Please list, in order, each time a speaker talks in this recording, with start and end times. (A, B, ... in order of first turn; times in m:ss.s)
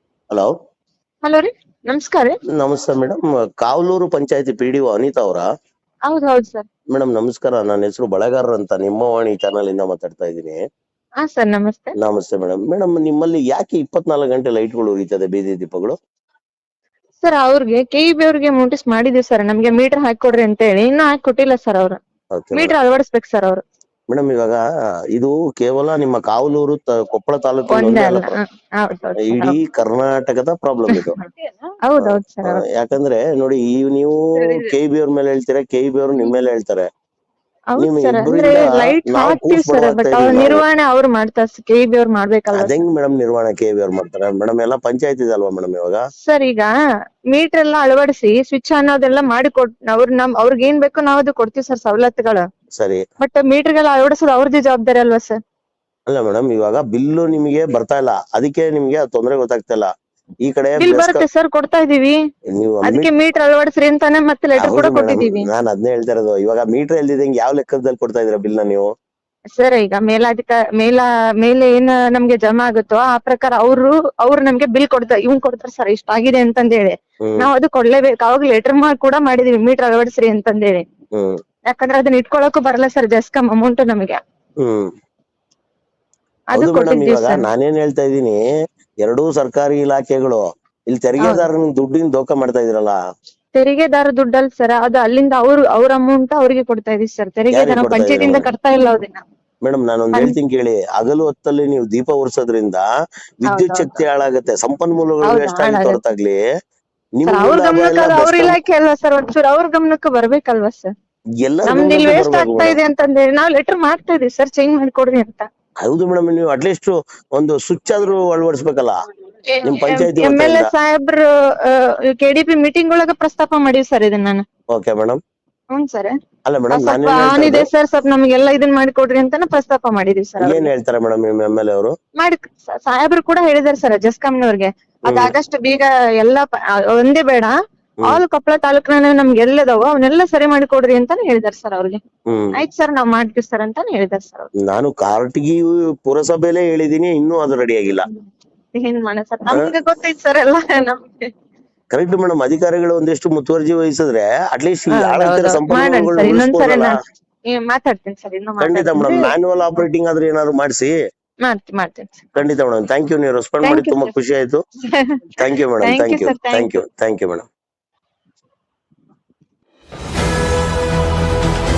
0:01.2-0:02.4 A
0:02.6-0:05.5 B
0:06.1-0:06.7 A
0:06.9-0:10.6 B
0:11.2-0:12.0 A
0:12.0-0:16.0 B
0:17.2-0:22.0 A
0:22.4-0:22.8 B
0:22.5-0:23.6 A
0:24.1-0:24.6 B
0:25.2-0:28.3 B
0:27.7-0:29.6 A
0:29.2-0:31.2 B
0:30.9-0:32.6 A
0:32.0-0:36.9 B
0:34.4-0:34.7 A
0:37.7-0:42.8 A
0:37.8-0:40.6 B
0:42.5-0:46.0 B
0:46.2-0:46.7 A
0:47.3-0:52.4 A
0:53.2-0:55.4 A
0:56.1-0:59.9 B
1:00.4-1:01.3 B
1:00.8-1:02.2 A
1:02.5-1:03.1 B
1:02.9-1:05.5 A
1:04.6-1:08.9 B
1:09.6-1:20.8 A
1:17.2-1:17.5 B
1:21.1-1:21.4 B
1:21.7-1:24.2 A
1:24.6-1:24.9 B
1:26.5-1:27.4 A
1:26.6-1:28.4 B
1:29.0-1:33.0 B
1:31.2-1:31.5 A
1:33.6-1:39.2 A
1:37.5-1:38.5 B
1:39.6-1:42.8 B
1:43.4-1:46.4 B
1:43.5-1:44.0 A
1:45.2-1:46.0 A
1:47.2-1:48.6 B
1:47.3-1:50.9 A
1:51.4-1:52.8 B
1:51.7-1:55.5 A
1:55.8-1:59.0 B
1:59.5-2:04.4 A
1:59.6-2:00.7 B
2:04.7-2:05.2 B
2:05.7-2:06.1 A
2:06.5-2:07.7 B
2:06.7-2:10.7 A
2:10.4-2:12.0 B
2:12.2-2:17.5 A
2:15.1-2:15.4 B
2:18.1-2:22.0 A
2:22.3-2:22.6 B
2:22.6-2:24.5 A
2:24.6-2:28.1 B
2:28.8-2:31.3 A
2:31.9-2:36.9 B
2:34.9-2:37.0 A
2:37.5-2:39.3 A
2:38.6-2:40.9 B
2:41.4-2:42.2 A
2:42.4-2:44.6 B
2:43.6-2:44.2 A
2:44.9-2:46.7 A
2:45.4-2:47.5 B